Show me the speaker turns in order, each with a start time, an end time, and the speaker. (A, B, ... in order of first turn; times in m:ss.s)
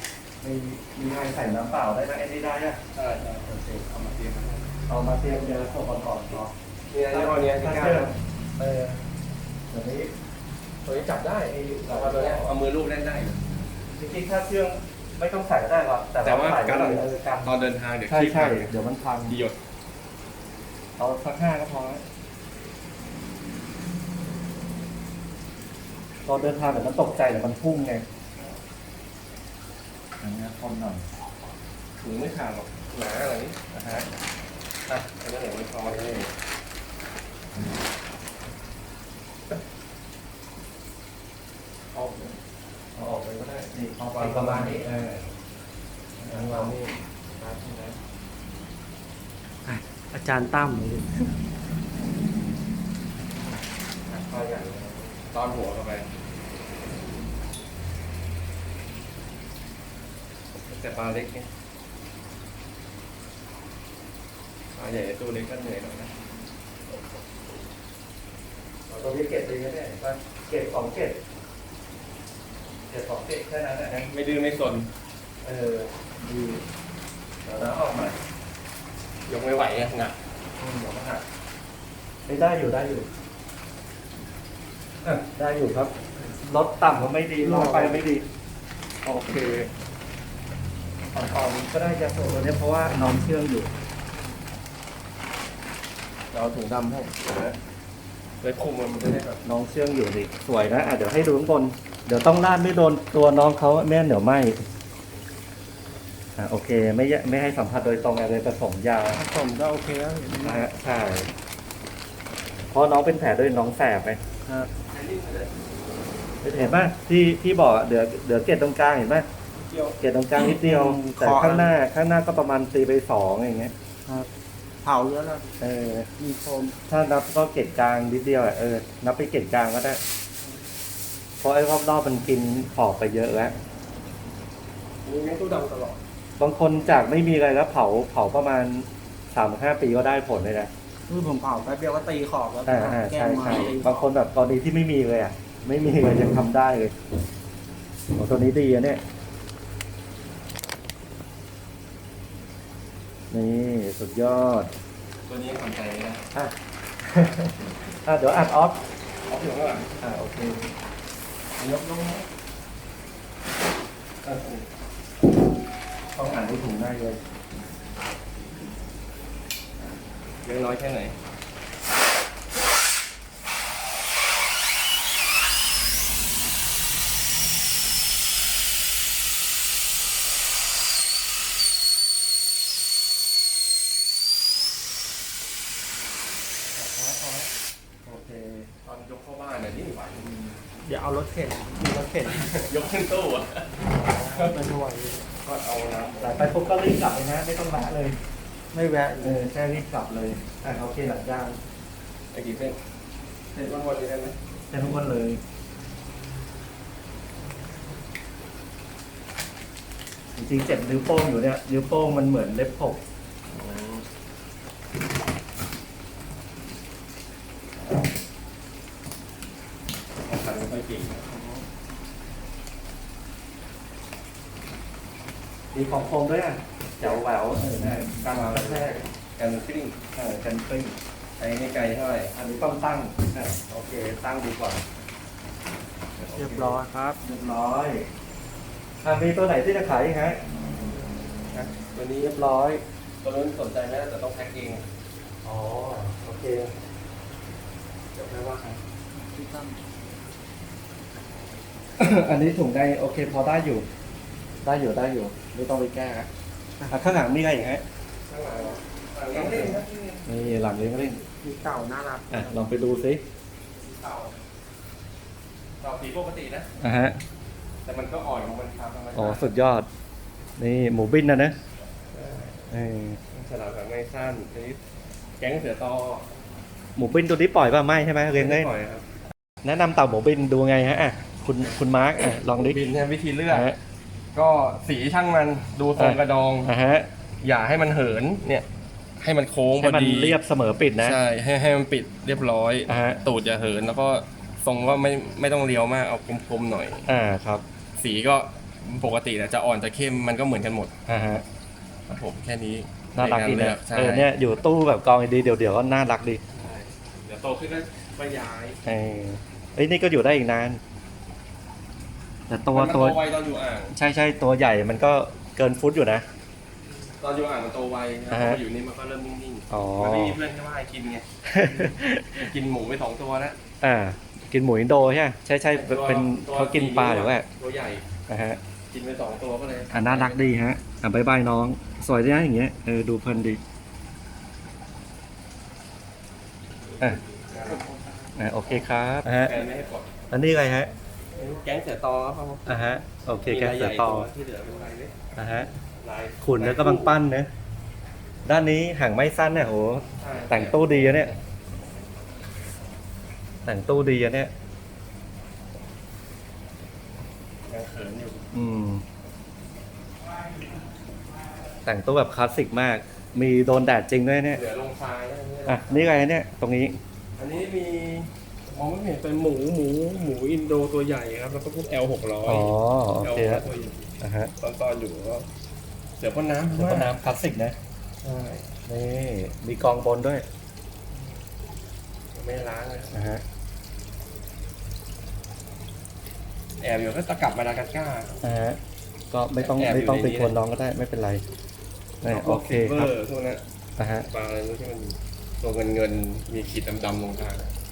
0:00.4-0:02.8 A
0:02.9-0:04.7 B
0:04.9-0:06.5 A
0:06.9-0:08.1 B
0:07.1-0:08.9 A
0:08.7-0:08.9 B
0:09.7-0:10.1 A
0:10.8-0:13.4 B
0:11.5-0:12.5 A
0:14.0-0:19.4 A
0:16.2-0:18.7 B
0:19.3-0:19.6 B
0:21.0-0:22.0 A
0:26.2-0:28.0 A
0:30.2-0:31.0 A
0:32.0-0:33.6 B
0:33.7-0:34.1 A
0:34.9-0:36.3 B
0:35.8-0:36.3 A
0:42.0-0:42.4 B
0:42.9-0:45.2 A
0:44.1-0:44.9 B
0:46.2-0:46.8 A
0:46.3-0:46.9 B
0:47.4-0:47.8 A
0:50.1-0:51.2 C
0:54.1-0:54.9 A
0:54.3-0:56.1 B
1:00.6-1:01.5 B
1:04.7-1:06.1 B
1:08.9-1:11.2 A
1:12.9-1:14.1 A
1:14.1-1:14.9 B
1:15.4-1:16.6 A
1:17.4-1:18.2 A
1:19.3-1:20.2 B
1:20.6-1:21.2 A
1:22.3-1:23.1 A
1:25.0-1:28.2 A
1:27.5-1:27.9 C
1:29.0-1:29.7 B
1:31.1-1:33.7 A
1:36.3-1:37.6 B
1:38.4-1:39.4 B
1:39.4-1:44.6 A
1:46.4-1:49.2 A
1:49.1-1:50.7 C
1:50.4-1:51.3 A
1:52.7-1:54.2 A
1:54.8-1:55.5 B
1:56.4-1:59.3 A
1:59.6-2:01.7 C
2:00.0-2:03.7 A
2:04.8-2:05.5 C
2:05.6-2:06.1 A
2:06.2-2:06.8 C
2:06.9-2:10.0 A
2:11.4-2:13.5 A
2:15.0-2:16.0 B
2:16.4-2:20.7 A
2:21.1-2:24.0 C
2:22.6-2:26.9 A
2:23.4-2:23.8 B
2:28.1-2:29.0 A
2:33.3-2:34.7 A
2:35.3-2:36.2 B
2:36.3-2:38.8 A
2:39.3-2:39.9 B
2:40.0-2:40.7 A
2:41.6-2:42.2 B
2:44.2-2:44.6 B
2:46.1-2:47.2 A
2:50.4-2:51.1 B
3:06.9-3:07.4 B
3:08.0-3:08.7 A
3:08.8-3:10.4 B
3:10.8-3:12.5 C
3:12.2-3:14.6 B
3:13.9-3:15.3 C
3:15.4-3:16.4 B
3:16.2-3:18.2 A
3:18.7-3:19.4 C
3:19.2-3:21.6 A
3:22.3-3:22.8 B
3:23.5-3:24.4 B
3:24.7-3:25.4 A
3:30.4-3:33.0 A
3:33.5-3:34.0 B
3:40.2-3:41.3 B
3:41.3-3:41.6 A
3:45.7-3:48.9 A
3:48.0-3:50.0 B
3:50.1-3:51.0 A
3:51.4-3:52.3 B
3:52.3-3:54.8 A
3:56.2-3:58.1 A
3:56.3-3:57.2 C
3:59.0-4:00.4 A
4:01.5-4:02.4 B
4:02.2-4:02.8 A
4:03.2-4:04.8 B
4:05.4-4:06.7 A
4:08.1-4:08.7 B
4:09.3-4:09.8 C
4:12.0-4:13.8 A
4:14.6-4:16.3 A
4:16.8-4:17.0 C
4:16.9-4:17.8 A
4:18.3-4:20.3 B
4:19.3-4:21.2 A
4:21.3-4:22.5 C
4:22.3-4:23.2 A
4:23.8-4:24.4 B
4:25.8-4:26.7 B
4:26.8-4:27.2 A
4:27.8-4:29.5 B
4:29.1-4:29.9 A
4:30.6-4:31.5 A
4:32.1-4:32.7 B
4:32.7-4:33.2 A
4:33.3-4:34.8 B
4:35.4-4:36.2 B
4:37.0-4:38.7 A
4:38.3-4:39.0 B
4:39.6-4:42.8 A
4:42.2-4:43.7 B
4:43.5-4:43.8 A
4:44.3-4:46.7 B
4:46.0-4:47.1 A
4:47.4-4:48.6 B
4:49.2-4:50.4 B
4:49.8-4:51.2 A
4:51.0-4:57.1 B
4:52.9-4:53.2 A
4:57.0-4:57.6 A
4:58.0-5:00.9 B
5:01.1-5:01.4 A
5:02.1-5:04.3 B
5:03.2-5:06.4 A
5:06.5-5:08.8 B
5:08.8-5:10.8 A
5:12.5-5:13.2 A
5:12.7-5:14.0 B
5:13.9-5:16.2 A
5:16.9-5:21.2 B
5:18.3-5:18.6 A
5:19.7-5:20.4 A
5:21.5-5:22.5 A
5:22.4-5:23.6 B
5:23.8-5:27.5 A
5:25.7-5:28.0 B
5:28.3-5:28.6 A
5:28.9-5:30.4 B
5:29.9-5:33.6 A
5:37.5-5:37.9 B
5:38.4-5:39.6 A
5:39.4-5:40.1 B
5:40.3-5:40.9 A
5:41.4-5:42.8 B
5:42.7-5:44.3 A
5:43.5-5:45.1 B
5:45.4-5:45.7 A
5:46.0-5:47.2 B
5:46.4-5:47.5 A
5:48.4-5:51.3 A
5:50.2-5:51.4 B
5:53.6-5:54.5 A
5:57.7-5:58.5 B
5:58.5-5:59.0 A
6:01.8-6:04.6 A
6:04.5-6:06.2 B
6:05.7-6:07.0 A
6:07.4-6:15.5 B
6:12.4-6:13.7 A
6:14.2-6:14.5 A
6:16.2-6:17.1 B
6:16.7-6:17.8 A
6:18.2-6:18.7 B
6:18.9-6:20.4 A
6:22.3-6:23.2 B
6:23.1-6:23.4 A
6:26.8-6:28.4 B
6:28.4-6:28.8 A
6:29.3-6:31.4 A
6:29.7-6:30.5 B
6:32.2-6:33.1 A
6:32.2-6:33.6 B
6:34.0-6:34.3 A
6:34.2-6:37.7 B